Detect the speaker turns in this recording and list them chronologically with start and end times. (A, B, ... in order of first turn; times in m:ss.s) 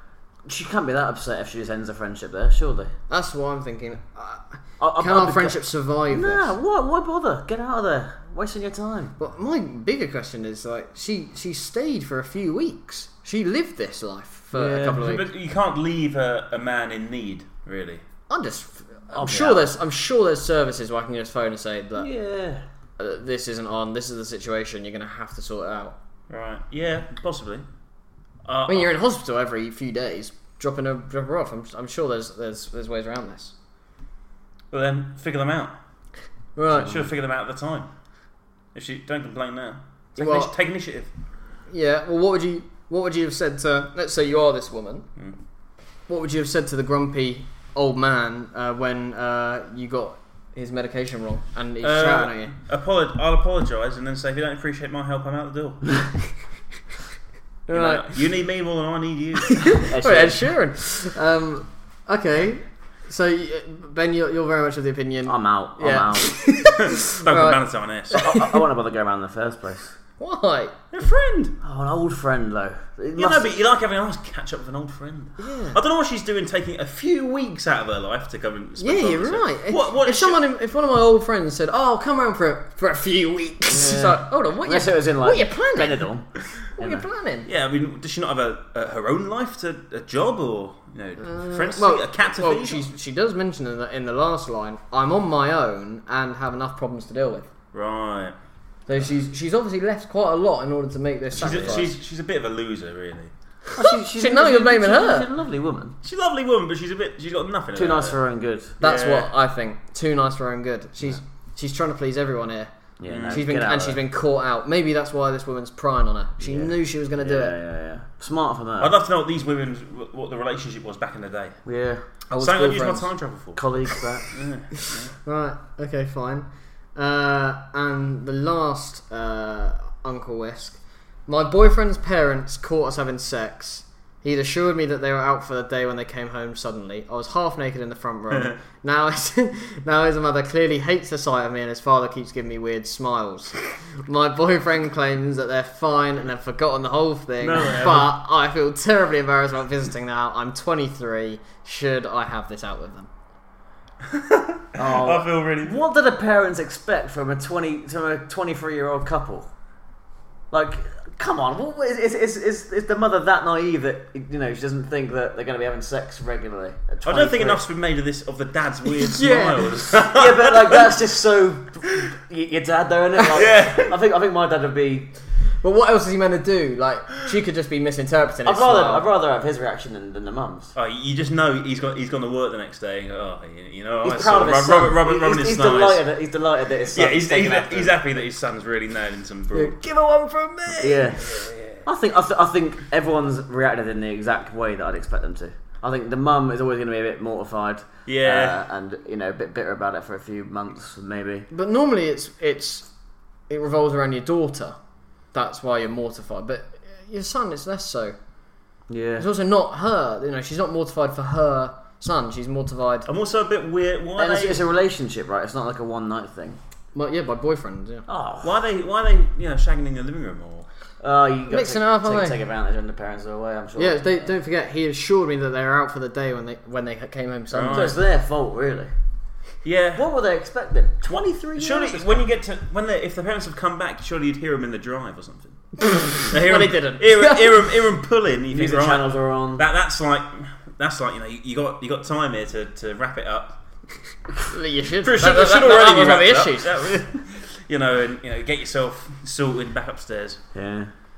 0:00.4-0:02.9 A
0:03.1-0:06.5 B
0:04.8-0:05.6 A
0:06.1-0:09.1 A
0:09.2-0:15.2 B
0:14.5-0:15.0 A
0:14.9-0:18.0 C
0:18.3-0:22.1 B
0:19.1-0:19.7 A
0:22.0-0:22.6 A
0:23.0-0:26.0 B
0:26.3-0:27.6 C
0:28.4-0:28.9 C
0:28.7-0:33.5 B
0:34.7-0:35.8 C
0:36.6-0:36.9 B
0:36.8-0:37.9 C
0:38.7-0:41.1 C
0:40.2-0:40.5 B
0:41.7-0:45.0 B
0:46.1-0:52.5 B
0:51.8-0:55.8 C
0:57.7-0:58.1 B
0:57.7-0:59.8 C
0:59.7-1:08.6 B
0:59.9-1:00.4 A
1:05.2-1:06.4 A
1:07.0-1:08.2 C
1:08.1-1:10.0 A
1:10.2-1:10.7 B
1:10.9-1:11.5 C
1:11.6-1:13.6 A
1:13.1-1:20.4 C
1:15.4-1:15.8 B
1:18.8-1:26.1 B
1:23.7-1:27.0 A
1:26.8-1:27.5 B
1:27.4-1:32.8 C
1:31.2-1:37.5 B
1:37.7-1:38.4 C
1:38.9-1:41.9 B
1:41.3-1:41.8 A
1:41.4-1:43.3 C
1:43.7-1:46.0 A
1:44.2-1:45.3 B
1:46.0-1:48.2 C
1:47.7-1:48.7 A
1:48.8-1:49.3 C
1:48.8-1:52.7 B
1:53.0-1:54.0 A
1:53.0-1:53.4 C
1:53.2-1:57.5 B
1:56.4-1:58.9 A
1:58.8-2:01.6 C
2:01.6-2:02.0 A
2:02.3-2:03.1 B
2:02.4-2:03.7 C
2:03.5-2:04.3 A
2:04.3-2:05.1 C
2:05.2-2:33.1 B
2:18.3-2:18.6 C
2:27.4-2:28.1 C
2:34.0-2:35.8 C
2:34.8-2:39.5 A
2:40.5-2:47.6 A
2:47.0-2:50.9 C
2:49.0-2:49.9 B
2:50.0-2:55.1 A
2:53.3-2:53.9 C
2:55.6-2:59.1 B
2:58.4-3:00.7 A
3:00.7-3:06.0 C
3:04.0-3:08.0 A
3:06.9-3:09.8 C
3:09.5-3:11.1 B
3:10.8-3:21.5 A
3:11.2-3:11.8 C
3:18.0-3:18.6 C
3:21.5-3:22.9 B
3:23.5-3:24.8 B
3:25.3-3:28.1 B
3:28.9-3:29.3 A
3:29.2-3:33.1 B
3:33.0-3:34.6 C
3:34.2-3:36.6 A
3:36.9-3:38.0 B
3:38.1-3:38.6 A
3:38.4-3:40.6 C
3:41.0-3:44.2 A
3:41.5-3:42.4 B
3:43.8-3:47.9 B
3:47.5-3:48.0 C
3:47.6-3:48.9 A
3:49.6-3:50.1 C
3:50.0-3:52.2 A
3:51.0-4:03.6 C
3:56.0-3:57.6 B
3:58.5-3:59.6 A
4:04.5-4:06.9 B
4:05.0-4:10.4 C
4:10.5-4:10.9 A